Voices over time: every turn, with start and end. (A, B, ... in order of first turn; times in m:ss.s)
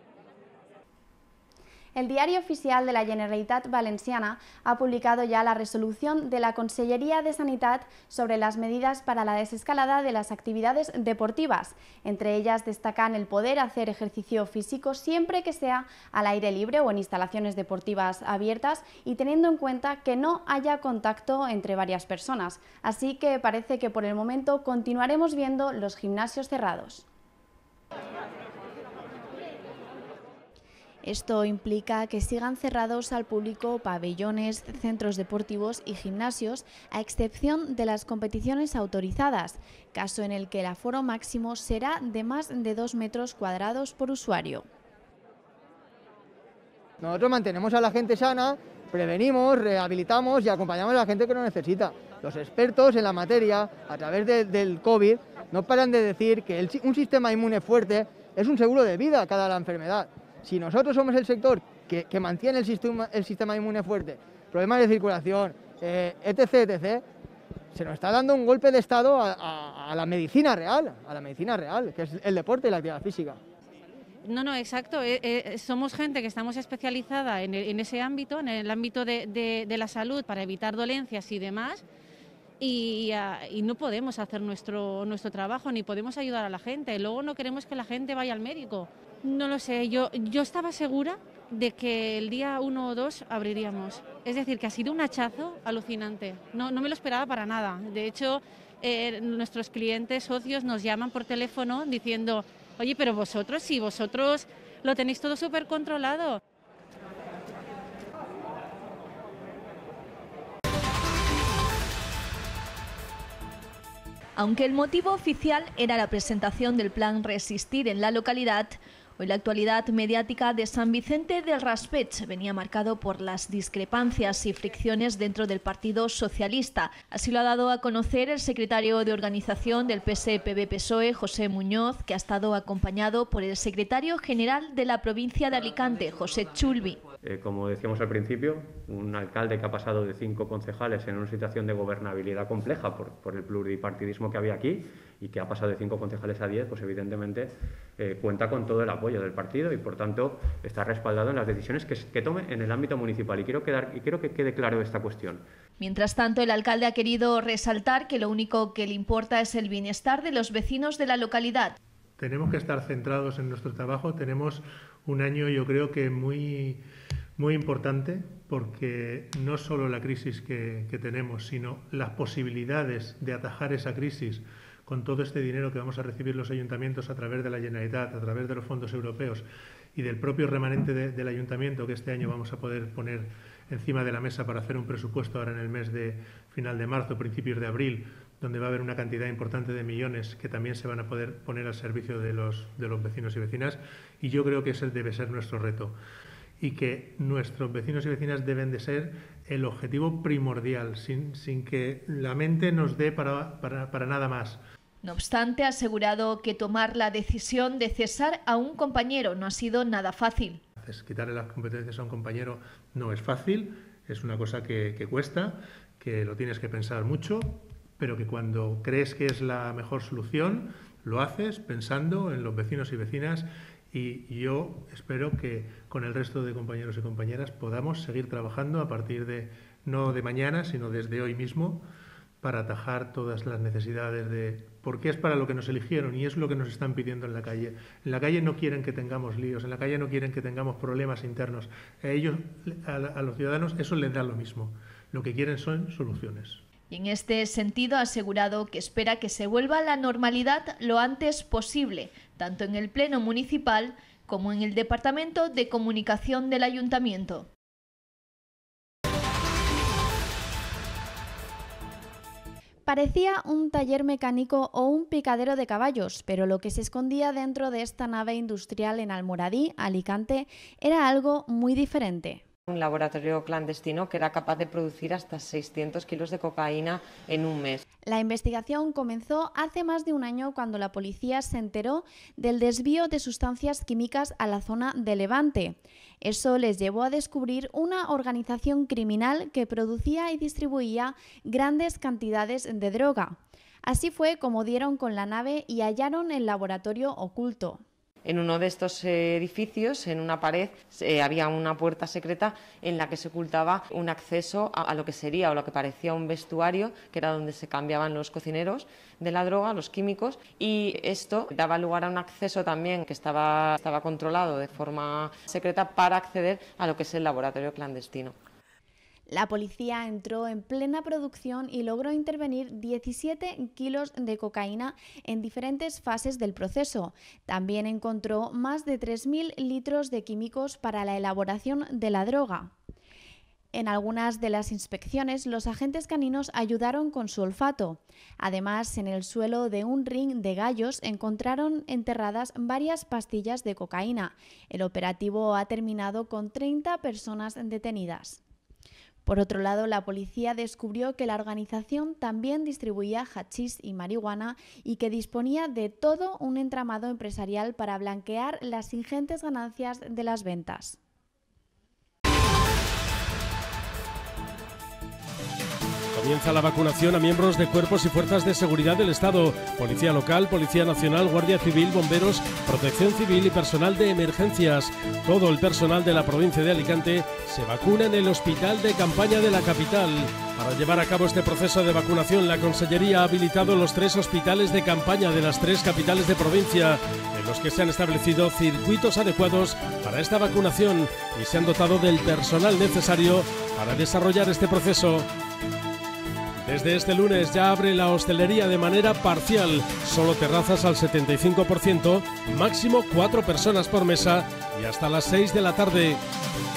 0:02.0-0:27.0 A
0:31.0-0:44.7 A
0:47.0-1:07.0 B
1:07.7-1:13.4 B
1:14.2-1:21.8 C
1:22.6-1:46.4 C
1:54.4-2:17.0 D
2:17.2-2:35.4 E
2:35.8-2:41.8 D
2:42.2-2:46.8 F
2:47.4-3:16.0 F
3:16.6-3:24.6 F
3:25.0-3:30.6 D
3:30.8-3:51.9 F
3:52.4-4:06.6 F
4:06.9-4:17.5 D
4:22.9-4:32.4 A
4:32.7-4:37.8 G
4:38.1-4:57.8 A
4:58.2-5:18.4 G
5:19.3-5:32.7 A
5:33.7-5:48.4 A
5:49.3-6:01.0 A
6:06.1-6:35.3 H
6:36.6-6:46.2 H